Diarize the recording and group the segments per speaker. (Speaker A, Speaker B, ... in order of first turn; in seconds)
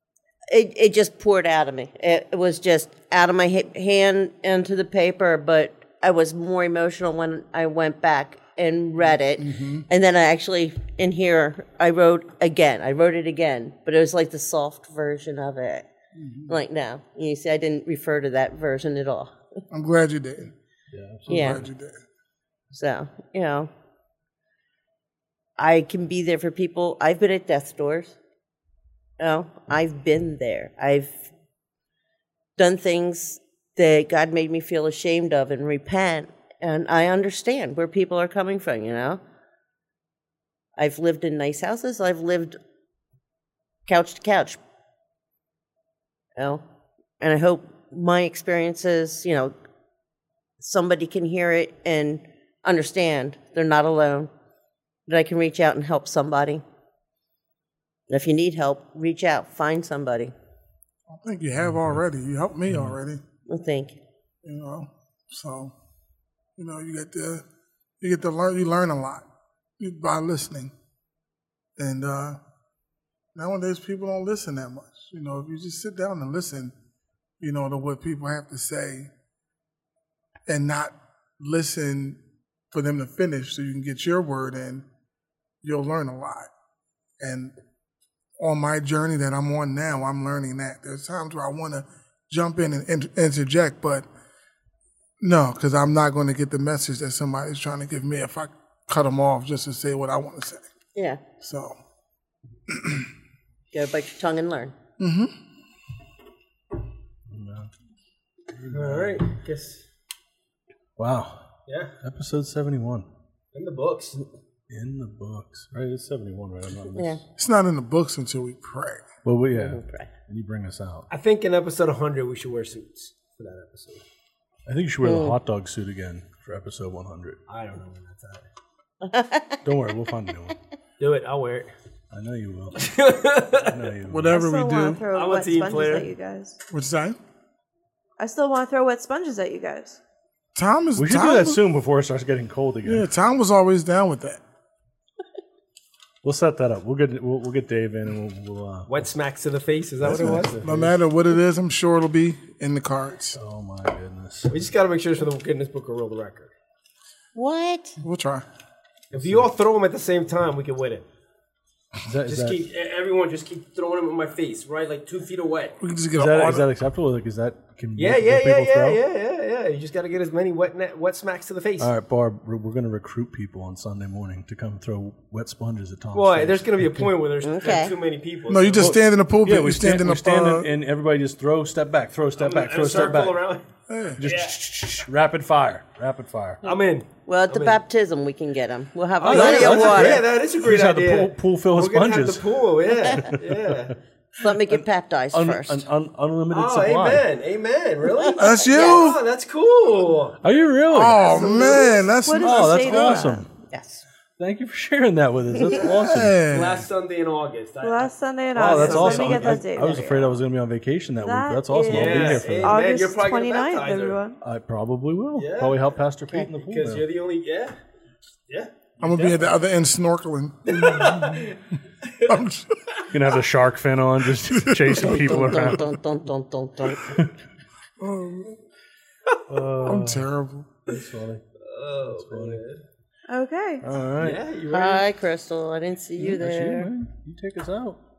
Speaker A: 0.5-15.9, 16.5-19.3, 21.3-21.6, 22.7-23.7, 25.6-28.2, 29.2-31.3, 32.6-39.2, 40.8-42.6, 43.9-44.6, 46.4-46.6, 47.2-49.5, 50.6-54.3, 55.1-56.6, 58.1-60.3, 63.5-64.0, 101.0-101.2, 103.7-104.8, 117.0-117.2, 119.5-120.1, 125.0-125.4, 129.0-129.6, 157.3-158.0, 177.4-177.9, 187.3-190.2, 194.4-195.8, 198.2-199.1, 203.7-204.0, 225.0-227.2, 234.7-236.9
Speaker B: 9.4-9.9, 16.2-16.6, 19.7-20.5, 21.3-22.0, 61.1-63.2, 64.4-65.7, 66.6-67.4, 68.0-69.2, 69.8-70.7, 71.8-72.4, 73.3-76.7, 77.4-79.1, 80.5-82.2, 82.7-84.8, 85.6-86.5, 87.2-87.5, 88.4-94.0, 95.2-100.7, 101.4-101.8, 102.7-103.1, 105.0-105.3, 117.4-119.0, 134.0-135.0, 136.7-137.2, 140.6-141.6, 142.8-144.4, 150.6-153.4, 158.0-158.4, 165.8-166.7, 178.5-180.7, 183.9-184.2, 198.4-199.2, 200.9-203.3, 206.0-206.8, 219.0-221.5, 222.3-222.8, 224.4-225.3, 228.0-228.6, 229.8-230.7
Speaker C: 20.9-21.7, 62.7-63.0, 107.3-107.7, 108.5-109.2, 111.0-111.5, 112.0-113.1, 114.7-117.2, 119.2-121.1, 124.7-127.4, 129.6-130.6, 132.1-133.0, 133.5-134.8, 141.0-143.1, 146.2-149.1, 150.0-150.9, 153.3-154.6, 159.1-159.4, 162.1-162.6, 166.2-169.0, 171.8-177.1, 178.8-183.4, 184.2-186.6, 189.2-192.6, 193.1-193.8, 194.4-197.3, 200.4-201.8, 202.4-203.5, 204.4-206.7, 208.6-212.8, 214.4-217.1, 223.1-226.0, 229.5-230.3, 230.9-231.4, 232.1-232.6, 233.8-234.4, 236.2-238.0
Speaker D: 108.7-109.8, 111.7-112.0, 113.5-114.2, 121.1-124.0, 127.5-128.5, 131.0-131.7, 132.8-133.8, 135.1-136.1, 148.9-150.9, 154.5-156.5, 159.1-161.1, 162.2-165.8, 168.0-171.9, 176.1-178.9, 182.4-184.6, 186.6-187.8, 189.3-194.0, 196.5-200.4, 201.3-201.9, 206.5-209.7, 211.9-214.2, 215.4-215.8, 216.3-217.8, 218.5-219.5, 220.7-223.1, 231.6-232.8, 234.2-235.1
Speaker E: 134.3-136.6, 138.2-140.0, 202.2-203.4, 207.8-210.4, 211.2-214.4, 233.3-233.9